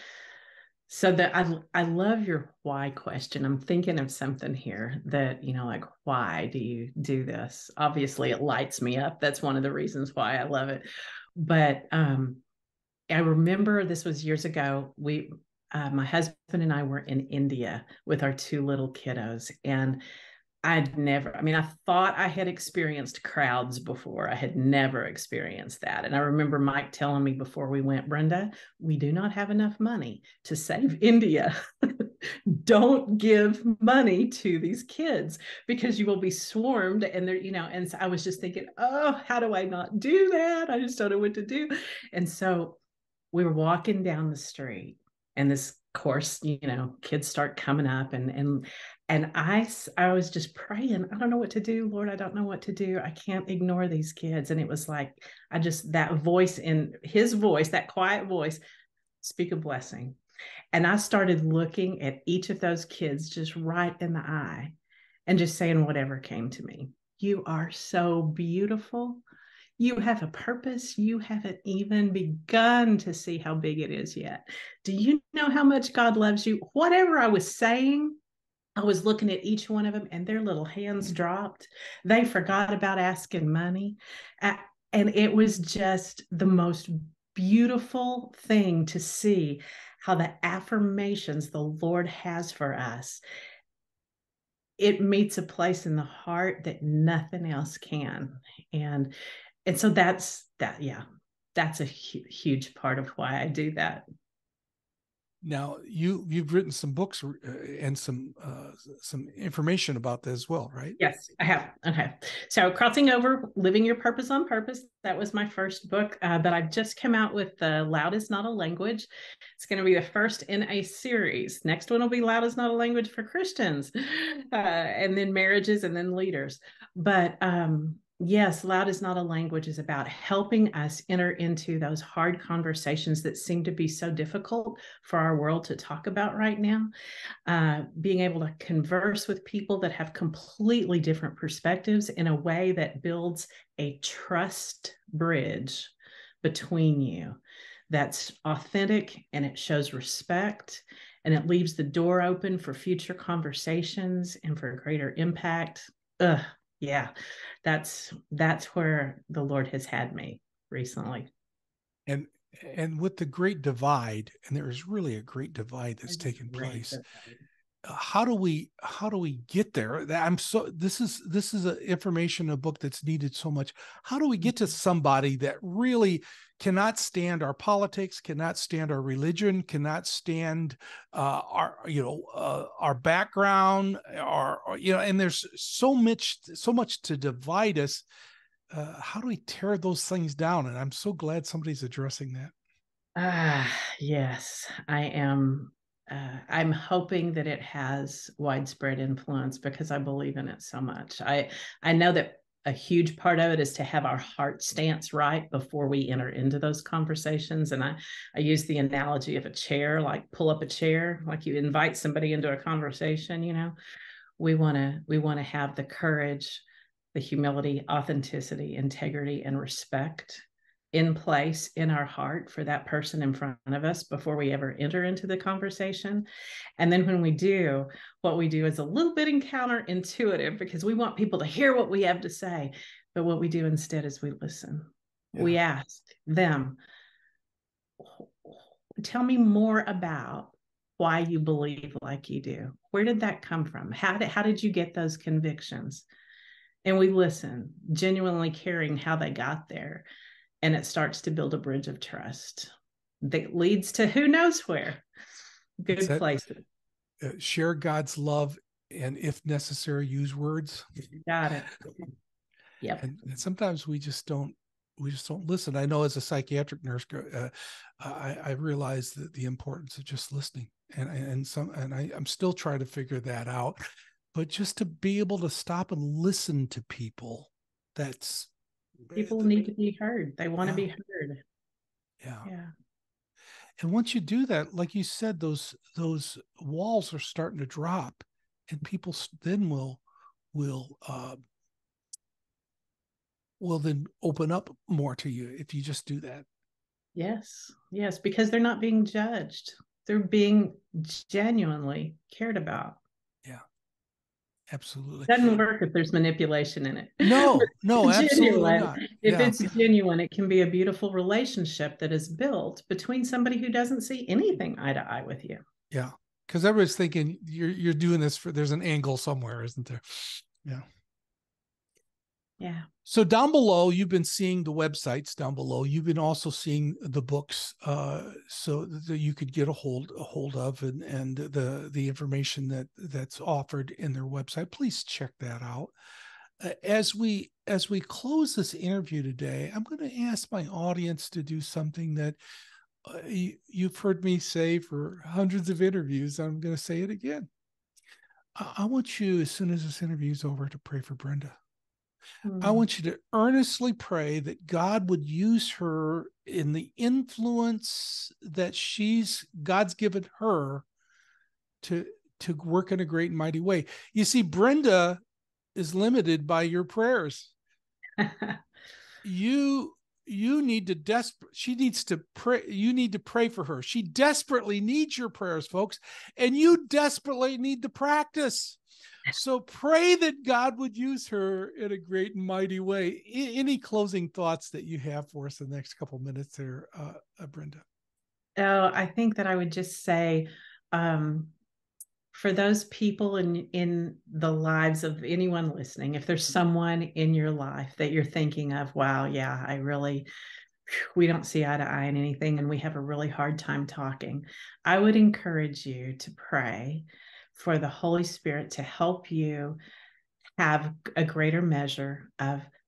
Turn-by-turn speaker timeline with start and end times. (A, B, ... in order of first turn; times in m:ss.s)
0:00.9-0:10.8 A
0:11.4-0:12.4 A
0:13.1-0:20.0 A
0:20.6-0:42.8 A
0:43.3-0:58.6 A
0:59.2-1:00.2 A
1:00.7-1:04.7 A
1:05.3-1:09.2 A
1:09.8-1:18.2 A
1:18.8-1:33.2 A
1:34.8-1:39.1 A
1:39.6-1:41.0 A
1:41.5-1:44.0 A
1:45.4-1:51.0 B
1:51.0-2:16.9 A
2:17.5-2:27.4 A
2:27.9-2:37.1 A
2:37.6-2:41.3 A
2:42.1-2:47.0 B
2:46.1-2:47.4 A
2:47.8-3:08.0 B
3:08.7-3:12.5 B
3:13.2-3:33.7 A
3:34.4-3:46.2 A
3:46.8-3:56.8 A
3:58.0-4:06.0 A
4:06.8-4:10.0 A
4:10.6-4:12.7 A
4:13.2-4:15.0 A
4:15.8-4:16.6 A
4:15.9-4:16.2 B
4:17.2-4:20.8 B
4:21.2-4:21.8 A
4:23.0-4:33.8 B
4:34.3-4:38.5 B
4:39.0-4:39.7 B
4:39.1-4:41.4 A
4:40.6-4:40.9 B
4:42.2-4:42.5 B
4:42.4-4:42.7 A
4:43.8-4:51.4 B
4:53.6-4:56.4 B
4:57.1-5:03.0 A
5:04.7-5:05.6 B
5:05.3-5:15.6 A
5:07.2-5:09.7 B
5:15.9-5:20.8 B
5:22.6-5:22.8 A
5:23.0-5:35.9 B
5:36.6-5:42.4 B
5:43.0-5:47.5 B
5:48.6-5:51.6 B
5:52.4-5:52.8 A
5:52.6-6:00.8 B
6:01.8-6:05.2 B
6:05.7-6:07.5 B
6:08.2-6:08.6 A
6:09.2-6:18.8 B
6:19.3-6:27.8 B
6:28.6-6:31.5 A
6:32.3-6:40.3 A
6:40.9-6:49.8 A
6:50.6-6:52.7 A